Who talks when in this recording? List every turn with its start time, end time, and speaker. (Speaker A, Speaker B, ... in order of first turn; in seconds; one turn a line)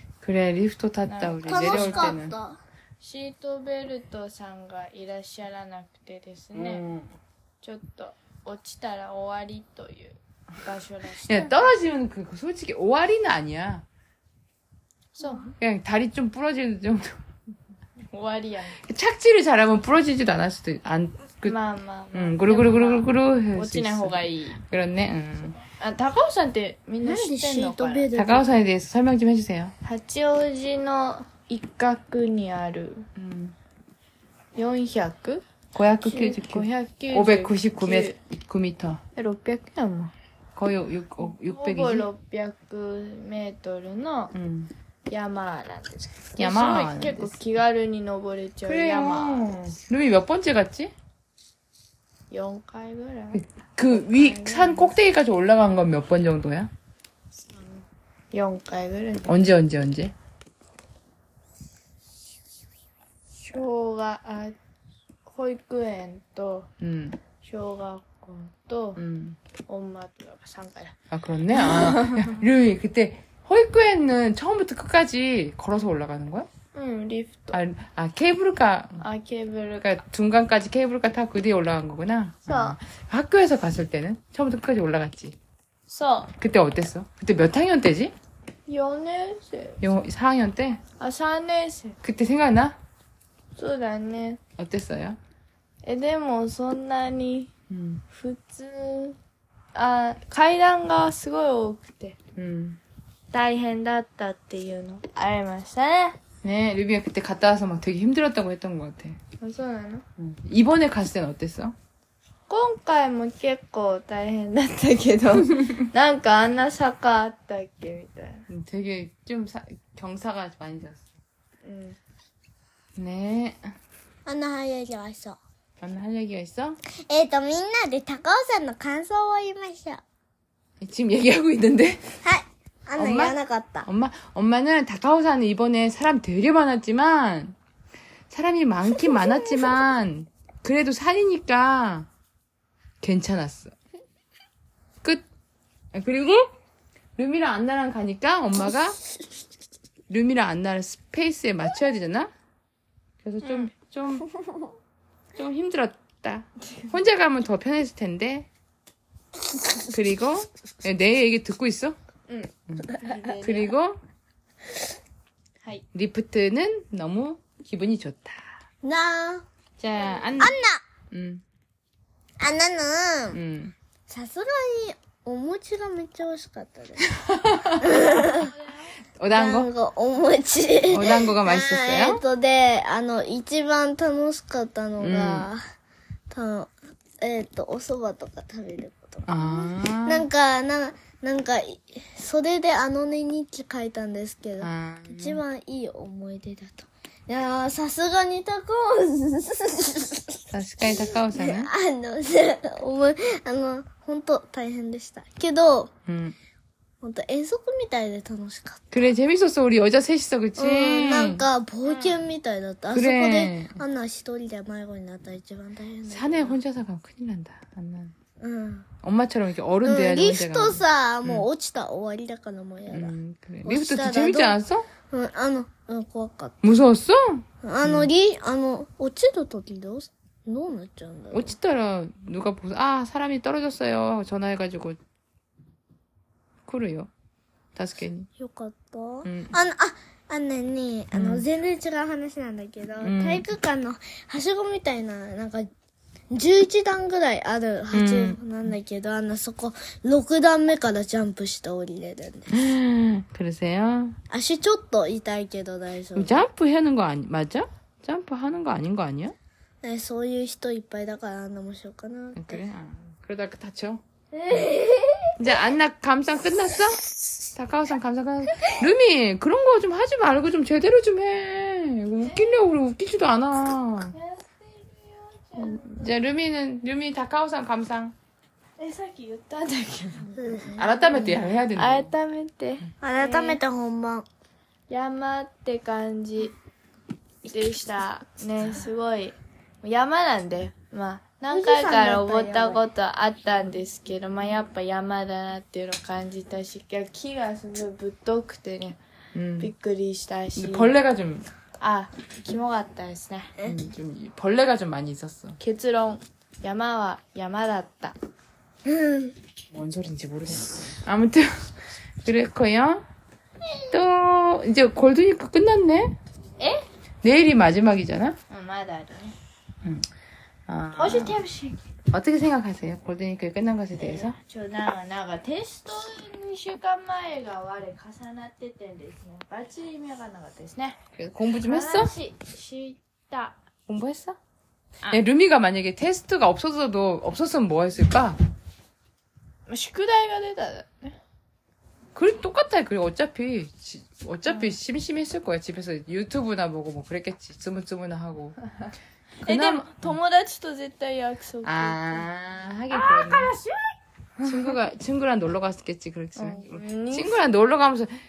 Speaker A: 0.2-2.3
Speaker B: 1.1-2.0
Speaker C: 1.4-2.6
Speaker B: 3.0-6.8
Speaker A: 6.5-7.1
Speaker B: 7.6-11.6
Speaker A: 11.2-13.8
Speaker B: 15.1-15.5
Speaker A: 15.6-17.2
Speaker B: 18.1-18.8
Speaker A: 18.8-21.6
Speaker B: 21.4-24.6
Speaker A: 22.1-25.6
Speaker B: 25.6-28.1
Speaker C: 27.0-28.5
Speaker A: 28.1-29.7
Speaker B: 29.8-33.0
Speaker A: 33.1-33.5
Speaker B: 34.5-35.4
Speaker A: 35.7-39.0
Speaker B: 36.0-38.1
Speaker B: 39.1-40.1
Speaker A: 40.5-42.1
Speaker B: 41.4-44.3
Speaker A: 44.3-44.7
Speaker B: 45.1-49.6
Speaker A: 46.4-47.4
Speaker A: 48.6-50.9
Speaker B: 52.3-55.0
Speaker A: 53.3-56.7
Speaker B: 58.3-59.4
Speaker A: 59.3-60.1
Speaker B: 63.4-64.5
Speaker B: 65.2-66.7
Speaker A: 66.8-67.2
Speaker B: 67.4-69.0
Speaker A: 69.0-69.4
Speaker B: 69.6-70.9
Speaker A: 71.1-76.5
Speaker B: 71.7-72.3
Speaker B: 76.7-77.6
Speaker A: 77.5-79.0
Speaker B: 79.0-79.9
Speaker A: 79.8-85.3
Speaker B: 82.5-82.8
Speaker B: 85.9-86.3
Speaker A: 86.4-88.1
Speaker B: 88.7-89.8
Speaker A: 89.8-90.8
Speaker B: 91.0-92.0
Speaker A: 92.0-92.8
Speaker B: 93.6-94.4
Speaker A: 94.6-95.2
Speaker B: 95.8-97.5
Speaker A: 97.7-98.0
Speaker B: 98.1-99.2
Speaker B: 99.7-102.2
Speaker A: 102.3-102.8
Speaker B: 103.3-106.2
Speaker A: 106.4-109.2
Speaker B: 109.4-110.0
Speaker A: 110.2-111.7
Speaker B: 112.5-118.4
Speaker A: 118.5-121.0
Speaker B: 121.6-122.0
Speaker A: 123.0-123.6
Speaker C: 124.2-125.4
Speaker A: 125.8-126.8
Speaker C: 127.1-130.0
Speaker A: 130.8-132.2
Speaker C: 132.2-133.9
Speaker A: 132.9-137.6
Speaker A: 138.3-142.1
Speaker A: 143.0-143.7
Speaker A: 145.9-146.5
Speaker A: 147.2-149.0
Speaker A: 150.1-152.3
Speaker A: 153.2-154.3
Speaker B: 153.4-153.7
Speaker A: 155.3-158.5
Speaker A: 159.8-162.0
Speaker B: 162.3-163.7
Speaker A: 162.7-164.0
Speaker A: 165.9-168.4
Speaker C: 168.8-169.4
Speaker A: 169.8-170.6
Speaker C: 170.4-170.8
Speaker A: 171.1-171.4
Speaker C: 172.4-173.4
Speaker A: 173.3-173.8
Speaker C: 174.1-177.1
Speaker A: 177.2-178.4
Speaker C: 177.8-178.5
Speaker B: 178.3-178.8
Speaker A: 179.2-179.7
Speaker C: 179.3-185.6
Speaker A: 180.9-182.2
Speaker A: 185.0-185.5
Speaker C: 186.3-205.9
Speaker A: 189.2-190.2
Speaker A: 194.6-195.4
Speaker A: 200.5-201.7
Speaker A: 206.1-206.3
Speaker C: 207.0-209.0
Speaker A: 208.9-211.4
Speaker C: 210.6-216.6
Speaker A: 212.9-213.8
Speaker A: 216.1-218.1
Speaker C: 218.4-218.8
Speaker A: 219.0-221.4
Speaker C: 219.8-224.6
Speaker A: 222.9-224.9
Speaker C: 225.1-226.6
Speaker A: 226.6-228.1
Speaker C: 227.6-231.5
Speaker A: 231.3-235.0
Speaker A: 236.7-237.1
Speaker A: 237.7-238.3
Speaker C: 238.4-245.7
Speaker A: 239.2-239.6
Speaker A: 241.1-241.4
Speaker A: 243.0-243.4
Speaker C: 246.3-252.7
Speaker A: 247.9-248.7
Speaker A: 252.5-254.2
Speaker C: 254.3-256.4
Speaker A: 256.1-259.4
Speaker C: 259.8-262.6
Speaker A: 262.3-264.0
Speaker B: 264.4-265.3
Speaker A: 265.4-267.0
Speaker A: 267.5-274.1
Speaker B: 272.2-272.6
Speaker B: 274.1-276.1
Speaker A: 275.6-278.1
Speaker B: 278.8-280.6
Speaker C: 280.4-281.0
Speaker A: 280.7-282.1
Speaker B: 281.1-283.6
Speaker C: 283.0-284.2
Speaker B: 284.9-286.5
Speaker B: 287.4-299.0
Speaker C: 291.5-292.9
Speaker A: 299.3-299.7
Speaker B: 299.6-300.9
Speaker A: 300.6-301.5
Speaker B: 301.8-303.6
Speaker A: 303.6-305.6
Speaker B: 305.6-308.1
Speaker C: 308.8-309.4
Speaker A: 309.7-311.5
Speaker A: 312.2-313.1
Speaker A: 313.9-316.1
Speaker B: 316.6-316.8
Speaker A: 317.2-318.4
Speaker B: 318.5-319.3
Speaker A: 320.7-321.4
Speaker B: 320.9-321.8
Speaker A: 322.1-324.4
Speaker B: 324.0-331.0
Speaker A: 331.2-332.1
Speaker B: 331.6-333.6
Speaker A: 333.9-334.4
Speaker A: 335.1-338.4
Speaker B: 339.7-341.1
Speaker A: 342.1-348.6
Speaker B: 344.5-344.8
Speaker A: 349.4-350.2
Speaker B: 349.4-352.2
Speaker A: 351.6-353.5
Speaker B: 352.9-354.7
Speaker A: 354.4-358.1
Speaker B: 356.4-357.4